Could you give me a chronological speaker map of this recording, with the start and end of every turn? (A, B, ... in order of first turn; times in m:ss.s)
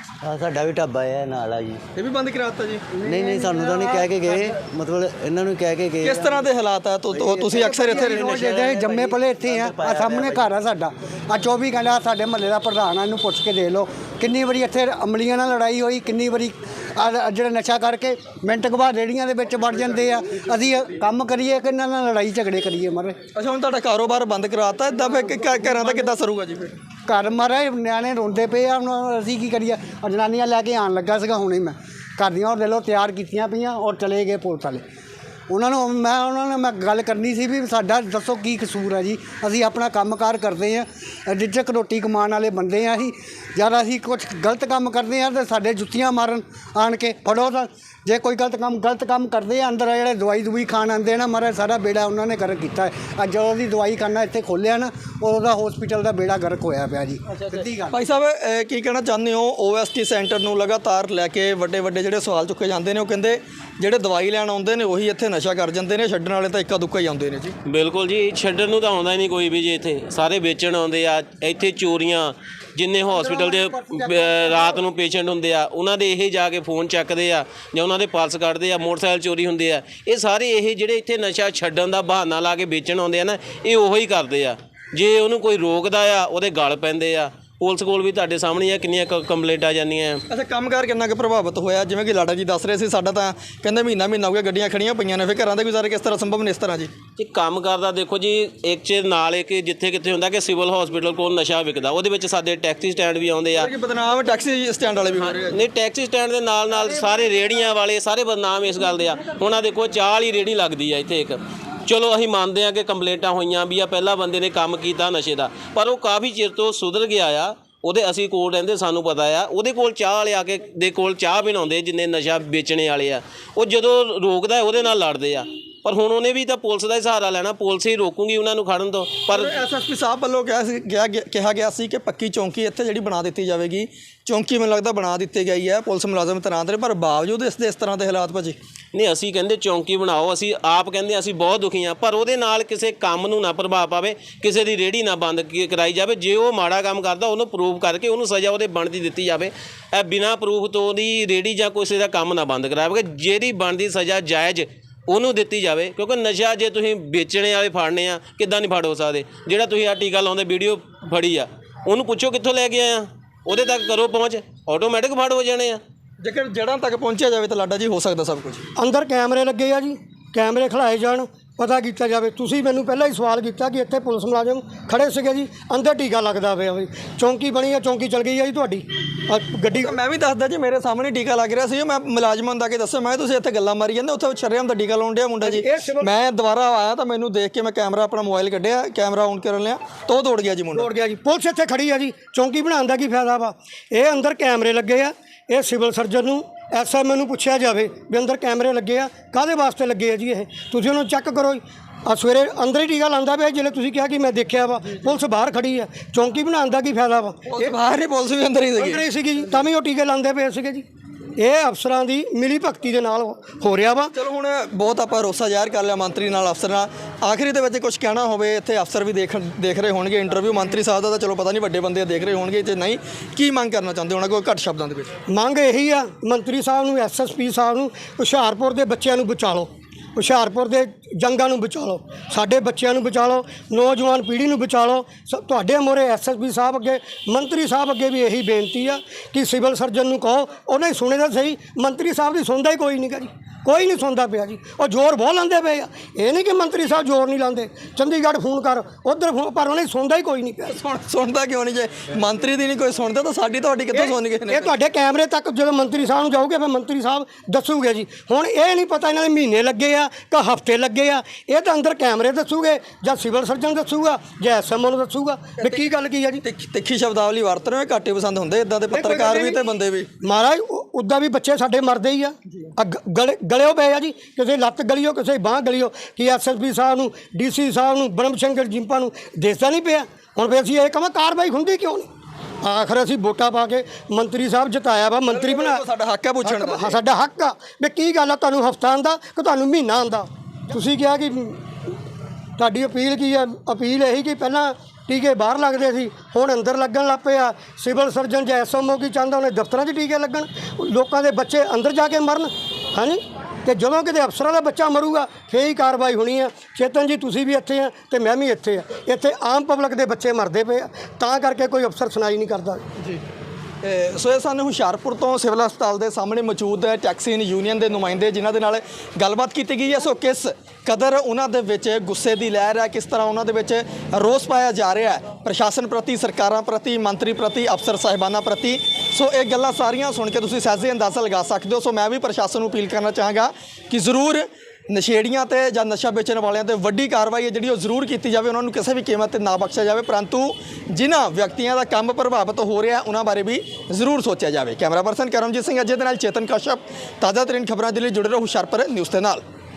0:00.2-0:01.8 A
0:02.0-0:03.0 B
0:03.0-0:04.6 C
0:03.0-0:06.4 A
0:06.0-0:08.4 B
0:07.1-0:10.5 A
0:07.5-0:23.2 C
0:23.4-0:26.7 B
0:27.1-0:34.8 C
0:35.5-0:58.0 C
0:57.9-1:07.6 B
1:07.7-1:30.2 D
1:13.1-1:14.8 C
1:30.3-1:36.9 B
1:37.2-1:43.7 D
1:43.6-1:45.6 B
1:45.2-2:09.6 D
2:09.3-2:18.6 B
2:18.9-2:45.8 D
2:46.2-2:48.6 B
2:48.8-2:59.9 E
2:59.7-3:10.9 B
3:05.4-3:06.1 E
3:10.7-3:27.7 E
3:27.5-3:29.0 B
3:28.8-3:30.8 E
3:31.4-3:34.1 E
3:34.2-3:45.1 B
3:45.3-4:10.8 E
4:10.7-4:14.7 B
4:13.9-4:26.4 E
4:25.6-4:25.8 B
4:26.4-4:30.1 B
4:28.9-4:29.6 E
4:30.2-4:42.1 E
4:42.6-4:45.8 E
4:45.3-4:47.0 B
4:46.4-4:51.6 E
4:52.6-5:12.8 E
5:13.8-5:49.4 B